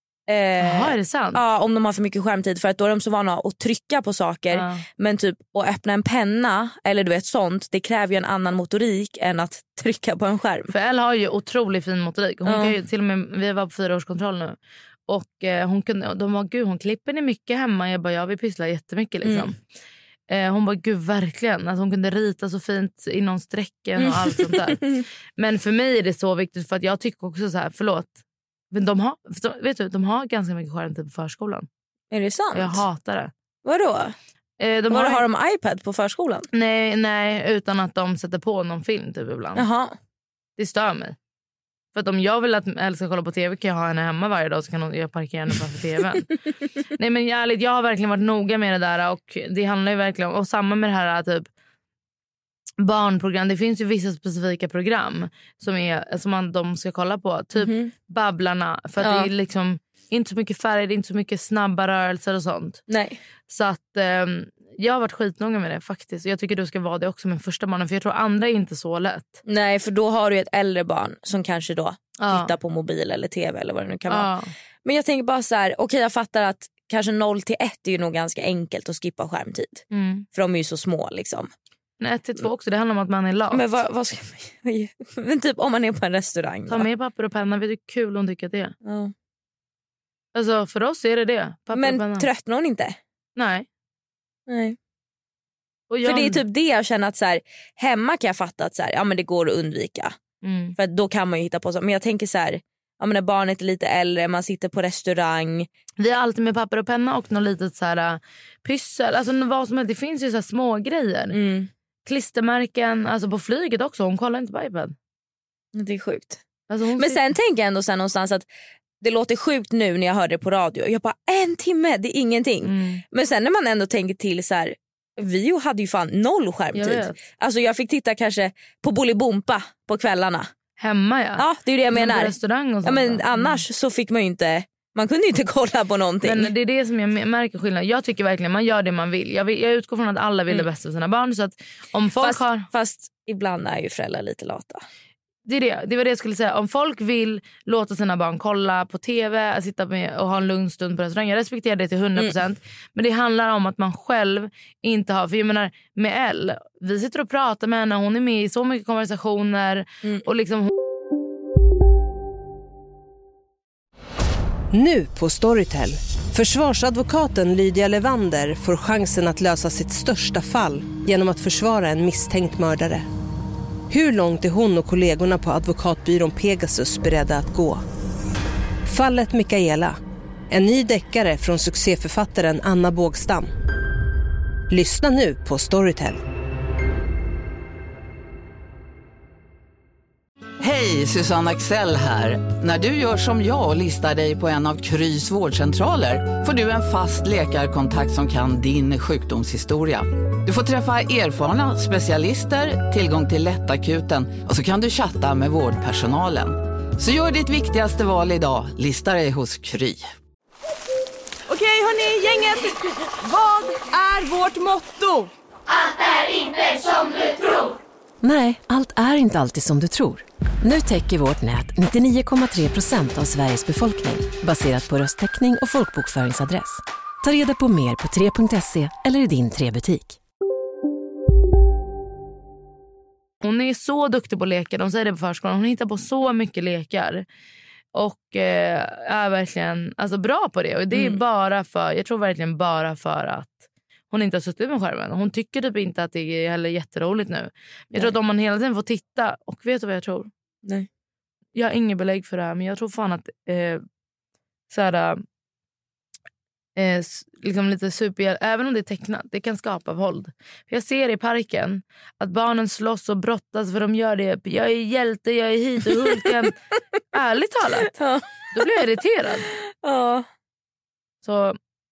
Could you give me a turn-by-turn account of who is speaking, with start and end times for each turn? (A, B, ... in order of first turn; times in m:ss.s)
0:00.3-0:10.7 A
0:00.6-0:01.4 B
0:04.5-0:04.8 B
0:10.7-0:14.6 B
0:12.4-0:12.7 A
0:15.1-0:19.6 B
0:19.2-0:19.5 A
0:20.3-0:24.8 B
0:24.0-0:25.0 A
0:25.4-0:28.2 B
0:28.7-0:31.7 B
0:32.1-0:32.8 A
0:32.5-0:33.3 B
0:33.6-0:34.2 A
0:34.6-0:35.2 B
0:34.9-0:36.5 A
0:36.5-0:39.6 B
0:39.5-0:40.0 A
0:40.6-0:41.2 B
0:41.9-0:46.3 B
0:47.0-0:51.5 B
0:52.8-1:02.8 B
0:57.6-0:57.9 A
0:59.0-0:59.3 A
1:02.9-1:03.2 A
1:03.5-1:09.4 B
1:09.4-1:14.3 A
1:12.2-1:12.5 B
1:14.1-1:14.5 B
1:14.8-1:21.5 A
1:19.9-1:20.2 B
1:22.0-1:23.6 B
1:23.5-1:26.9 A
1:26.7-1:28.7 B
1:28.8-1:29.1 A
1:30.3-1:32.3 B
1:31.7-1:33.0 A
1:33.4-1:33.6 B
1:34.5-1:34.8 A
1:35.9-1:36.4 B
1:36.0-1:40.1 A
1:40.4-1:40.8 B
1:40.8-1:45.7 A
1:46.0-1:51.4 B
1:51.3-1:51.7 A
1:52.0-1:54.9 B
1:55.7-1:56.4 A
1:56.7-1:57.2 B
1:57.0-1:58.4 A
1:59.0-2:10.5 A
2:02.6-2:03.0 B
2:06.7-2:07.2 B
2:10.8-2:13.6 B
2:11.4-2:16.5 A
2:16.2-2:22.7 B
2:22.2-2:24.8 A
2:25.4-2:40.7 B
2:44.7-2:53.0 C
2:53.9-2:57.8 C
2:58.8-3:00.0 C
3:00.5-3:03.5 C
3:04.7-3:06.2 C
3:10.6-3:30.1 D
3:31.5-3:35.3 E
3:38.2-3:50.2 F
3:53.4-3:57.2 B
3:57.9-4:10.3 B
4:00.9-4:01.2 A
4:11.5-4:13.8 B
4:14.7-4:15.2 B
4:16.8-4:26.6 B
4:27.1-4:27.9 B
4:27.9-4:28.7 A
4:28.5-4:29.5 B
4:29.8-4:30.3 A
4:31.2-4:31.6 B